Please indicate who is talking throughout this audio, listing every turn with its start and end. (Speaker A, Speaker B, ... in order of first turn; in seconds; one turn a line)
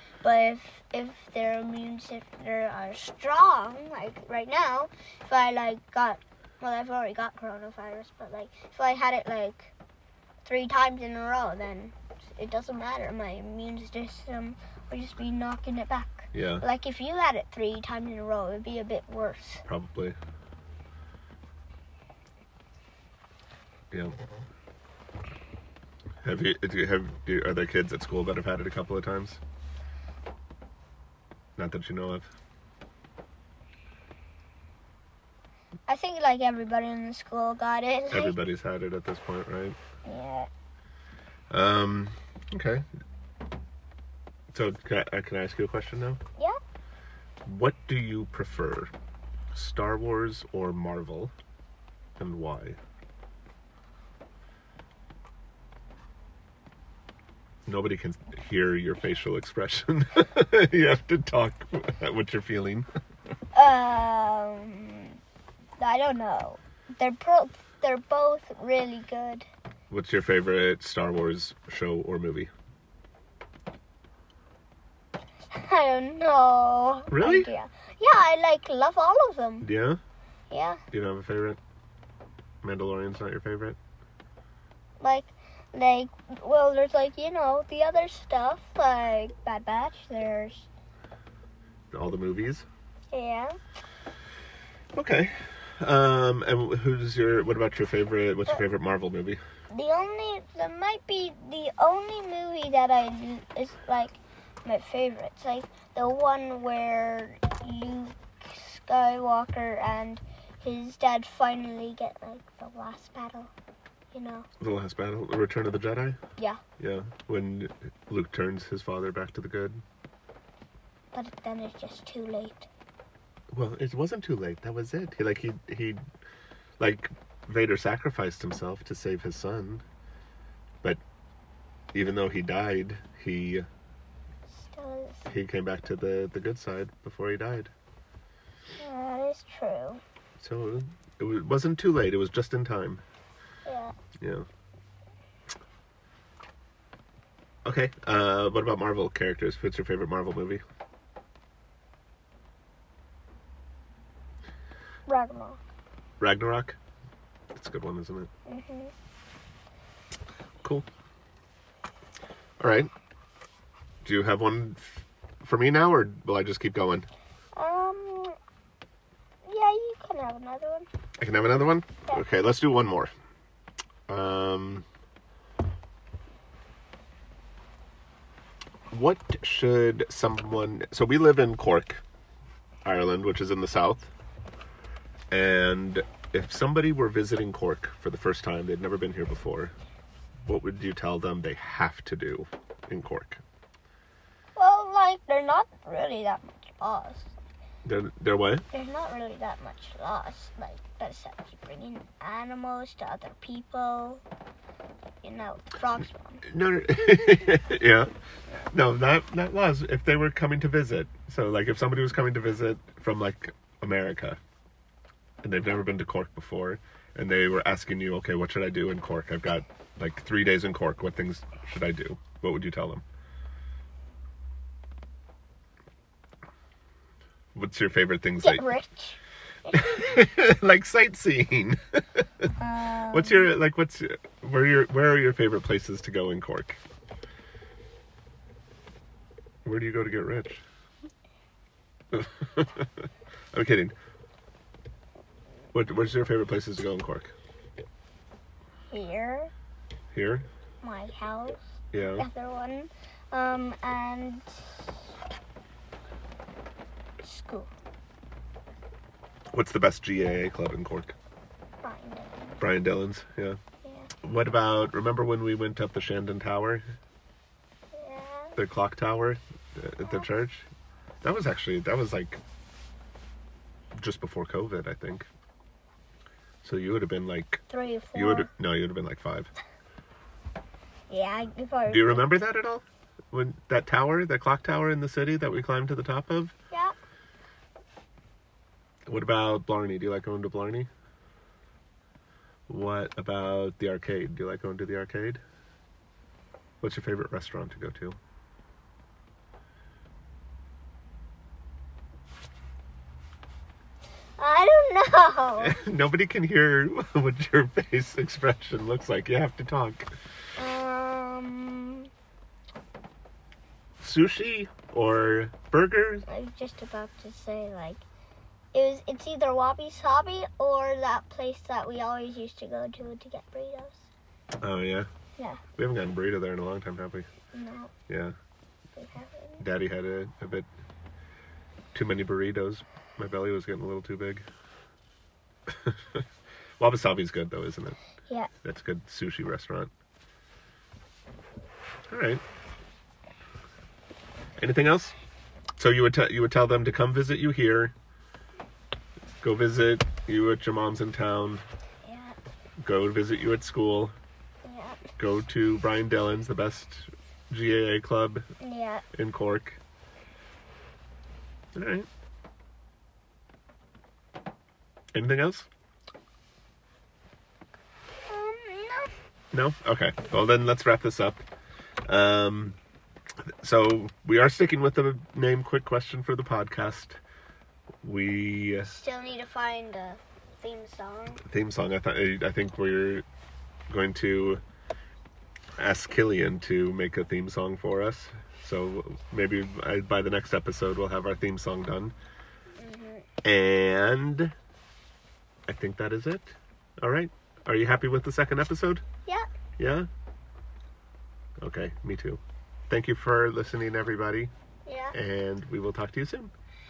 Speaker A: 0.2-9.7
Speaker A: 10.4-19.6
Speaker B: 16.3-16.6
Speaker B: 19.6-20.1
Speaker B: 26.2-29.4
Speaker B: 31.6-32.3
Speaker A: 35.9-38.4
Speaker B: 38.1-39.8
Speaker A: 40.0-40.5
Speaker B: 41.5-42.8
Speaker B: 44.5-46.2
Speaker B: 47.4-48.9
Speaker B: 49.5-51.3
Speaker B: 52.2-52.8
Speaker B: 57.6-62.9
Speaker A: 63.5-65.2
Speaker A: 65.8-69.5
Speaker B: 69.9-72.5
Speaker A: 75.5-79.7
Speaker B: 77.1-77.5
Speaker B: 79.6-80.0
Speaker A: 80.5-80.8
Speaker B: 80.9-81.6
Speaker B: 82.6-83.8
Speaker A: 85.0-90.7
Speaker B: 91.9-92.7
Speaker A: 93.1-93.5
Speaker B: 94.9-99.4
Speaker A: 99.7-113.5
Speaker A: 114.1-114.5
Speaker B: 114.6-116.2
Speaker B: 116.8-119.8
Speaker A: 121.1-122.7
Speaker B: 123.5-126.0
Speaker B: 126.8-129.8
Speaker B: 131.9-133.7
Speaker A: 134.5-135.3
Speaker B: 135.2-137.7
Speaker A: 138.8-140.0
Speaker B: 140.4-143.0
Speaker A: 143.6-143.9
Speaker B: 144.2-144.4
Speaker B: 147.6-150.6
Speaker A: 155.1-155.6
Speaker B: 156.2-156.8
Speaker B: 157.5-158.3
Speaker A: 158.4-158.9
Speaker B: 162.6-162.9
Speaker B: 164.0-167.1
Speaker A: 167.6-168.3
Speaker A: 169.4-170.9
Speaker B: 171.2-173.1
Speaker B: 174.1-174.8
Speaker B: 178.9-182.0
Speaker B: 182.8-184.1
Speaker B: 185.3-189.7
Speaker B: 190.4-193.4
Speaker A: 194.6-197.3
Speaker B: 197.8-198.7
Speaker A: 198.7-204.2
Speaker A: 205.2-206.4
Speaker B: 206.4-208.1
Speaker B: 208.7-214.4
Speaker B: 215.4-223.0
Speaker B: 227.5-228.6
Speaker A: 228.4-229.9
Speaker B: 229.7-232.5
Speaker A: 232.6-233.5
Speaker B: 233.1-236.8
Speaker B: 239.6-240.6
Speaker B: 242.1-243.9
Speaker B: 245.7-247.3
Speaker A: 248.9-249.5
Speaker B: 250.1-250.5
Speaker A: 250.8-254.9
Speaker B: 251.9-252.3
Speaker A: 257.2-257.7
Speaker B: 259.5-261.1
Speaker A: 261.8-262.6
Speaker B: 262.6-263.6
Speaker A: 263.8-264.1
Speaker B: 264.2-266.9
Speaker A: 267.9-268.6
Speaker B: 268.6-270.7
Speaker B: 271.2-272.4
Speaker B: 274.0-275.3
Speaker B: 276.6-277.6
Speaker A: 277.7-278.5
Speaker B: 278.1-279.5
Speaker A: 281.1-282.3
Speaker B: 281.9-286.5
Speaker B: 289.1-290.9
Speaker B: 292.7-295.4
Speaker B: 296.8-298.2
Speaker A: 304.4-305.8
Speaker B: 305.6-310.1
Speaker A: 310.6-312.1
Speaker B: 314.0-316.3
Speaker A: 316.3-318.0
Speaker A: 318.7-324.1
Speaker B: 324.6-325.1
Speaker B: 325.8-327.3
Speaker A: 327.5-327.9
Speaker B: 328.1-328.3
Speaker A: 328.9-329.6
Speaker B: 329.6-330.6
Speaker B: 331.9-334.4
Speaker B: 335.7-336.2
Speaker B: 336.8-338.0
Speaker B: 338.6-339.9
Speaker B: 342.1-342.4
Speaker B: 344.6-345.1
Speaker B: 345.8-347.9
Speaker B: 349.4-351.6
Speaker A: 352.0-352.4
Speaker B: 352.8-354.1
Speaker A: 354.6-355.0
Speaker B: 355.2-358.4
Speaker A: 358.6-359.1
Speaker B: 359.1-359.8
Speaker B: 361.7-362.1
Speaker B: 365.1-365.7
Speaker A: 368.3-369.1
Speaker B: 369.5-371.4
Speaker B: 372.1-372.8
Speaker B: 373.4-377.2
Speaker B: 378.0-378.9
Speaker A: 378.9-381.4
Speaker B: 381.4-383.2
Speaker B: 383.9-384.6
Speaker B: 385.8-392.1
Speaker A: 392.8-393.2
Speaker B: 393.4-394.5
Speaker B: 395.7-399.0
Speaker B: 399.8-400.1
Speaker B: 401.6-404.5
Speaker A: 404.9-405.1
Speaker B: 405.1-406.5